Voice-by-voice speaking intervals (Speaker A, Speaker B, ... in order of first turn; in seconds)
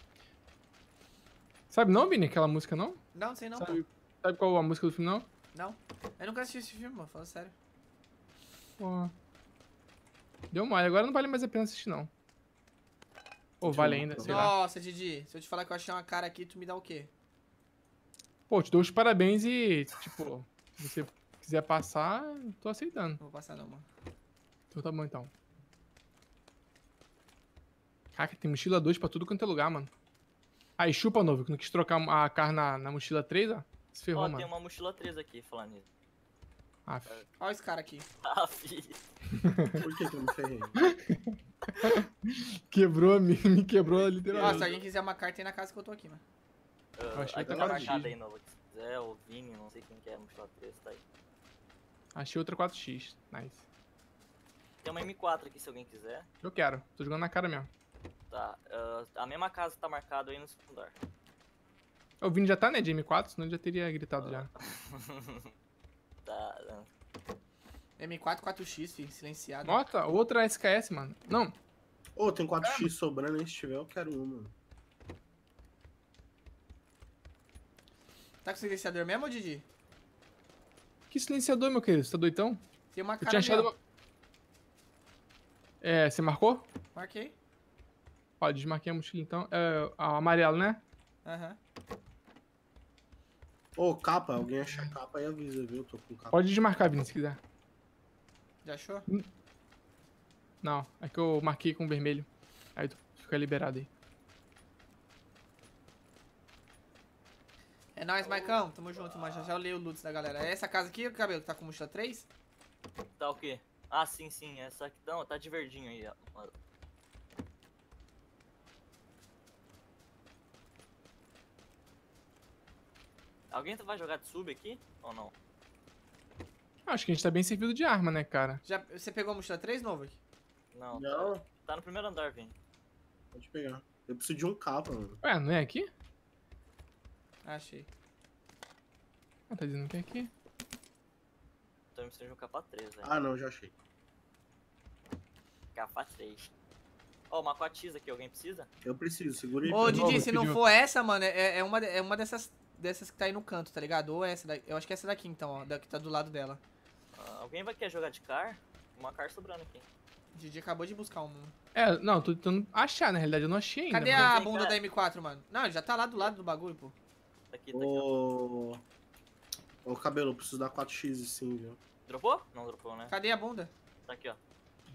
Speaker A: 1.7-3.0, 3.6-5.3, 8.8-9.1, 10.5-12.1, 13.6-14.5, 18.5-23.2, 24.7-25.3, 28.1-29.9, 30.8-34.5, 36.9-37.2, 39.3-39.9, 40.8-44.7, 47.1-48.1, 52.1-53.6, 56.4-57.7, 62.2-64.5, 69.6-71.5, 81.1-82.6, 83.2-83.8, 85.8-86.7, 88.4-90.8, 96.3-97.4, 100.6-103.9, 126.9-128.6, 135.2-135.9, 139.5-140.3, 149.7-150.6, 161.8-164.3
Speaker B: 3.1-3.8, 5.5-7.5, 14.2-17.1, 23.2-23.9, 37.4-38.1, 44.4-46.2, 68.0-69.8, 78.4-79.7, 82.9-83.7, 87.0-87.3, 91.2-91.6, 98.6-99.1, 108.0-112.3, 128.7-130.2, 137.4-137.9, 149.7-156.6, 160.3-161.5, 163.9-166.9, 173.1-173.7
Speaker C: 13.6-14.5, 39.8-40.8, 47.5-47.9, 72.2-74.5, 93.8-96.4, 130.9-131.4, 133.3-135.2, 143.0-143.7, 148.8-150.3, 167.7-168.8, 169.8-171.8
Speaker D: 34.1-35.9, 38.2-39.0, 43.9-44.8, 47.0-51.0, 54.8-56.3, 58.3-61.0, 64.2-65.5, 66.2-66.9, 108.2-109.5, 113.2-116.5, 123.5-125.3, 130.7-132.6, 141.9-143.1, 145.8-146.5, 147.3-148.7, 157.2-159.8, 164.1-164.8, 167.5-168.1, 172.1-173.1, 174.1-174.4